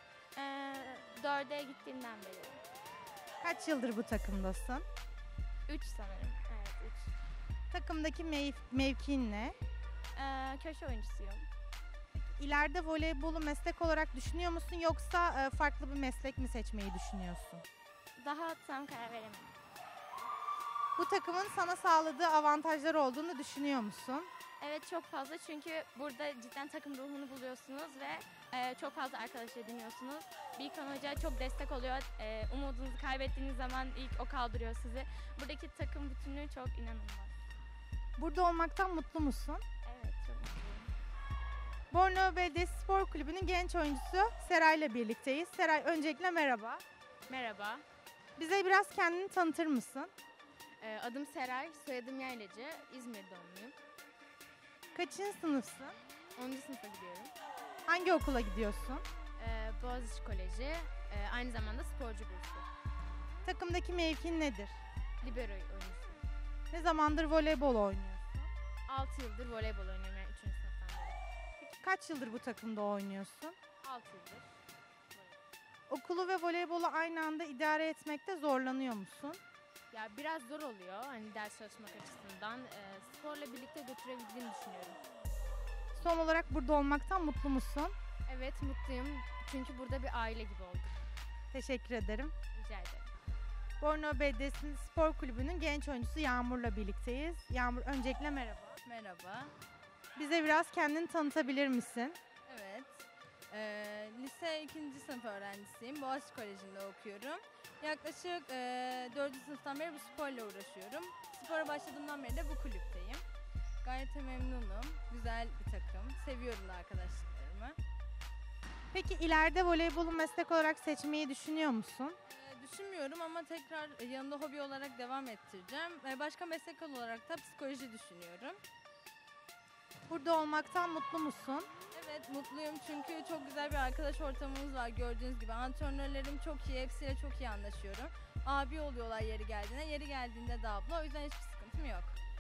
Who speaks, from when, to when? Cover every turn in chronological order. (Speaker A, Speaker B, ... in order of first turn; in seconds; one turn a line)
Speaker A: 0.3-2.6
Speaker B: 3.4-4.8
Speaker A: 5.7-7.1
Speaker B: 7.7-9.6
Speaker A: 10.2-11.5
Speaker B: 12.2-17.6
Speaker A: 18.2-19.6
Speaker B: 21.0-24.3
Speaker A: 24.6-37.4
Speaker B: 38.2-39.6
Speaker A: 39.8-40.9
Speaker B: 41.9-46.8
Speaker C: 47.3-47.8
Speaker B: 48.4-50.1
Speaker C: 50.8-53.8
Speaker B: 54.9-56.0
Speaker C: 56.4-57.3
Speaker B: 57.9-59.1
Speaker C: 59.4-62.7
Speaker B: 63.5-64.8
Speaker C: 65.2-66.2
Speaker B: 66.7-68.5
Speaker C: 68.9-71.2
Speaker B: 71.6-73.6
Speaker C: 73.8-74.5
Speaker B: 75.9-79.4
Speaker C: 79.9-85.0
Speaker B: 85.9-87.9
Speaker C: 88.3-91.0
Speaker B: 91.5-92.3
Speaker C: 92.5-93.1
Speaker B: 93.8-98.8
Speaker D: 98.8-99.5
Speaker B: 100.2-102.2
Speaker D: 102.5-113.2
Speaker D: 113.8-117.8
Speaker B: 118.9-122.2
Speaker D: 122.3-128.6
Speaker B: 130.1-131.7
Speaker D: 131.9-142.2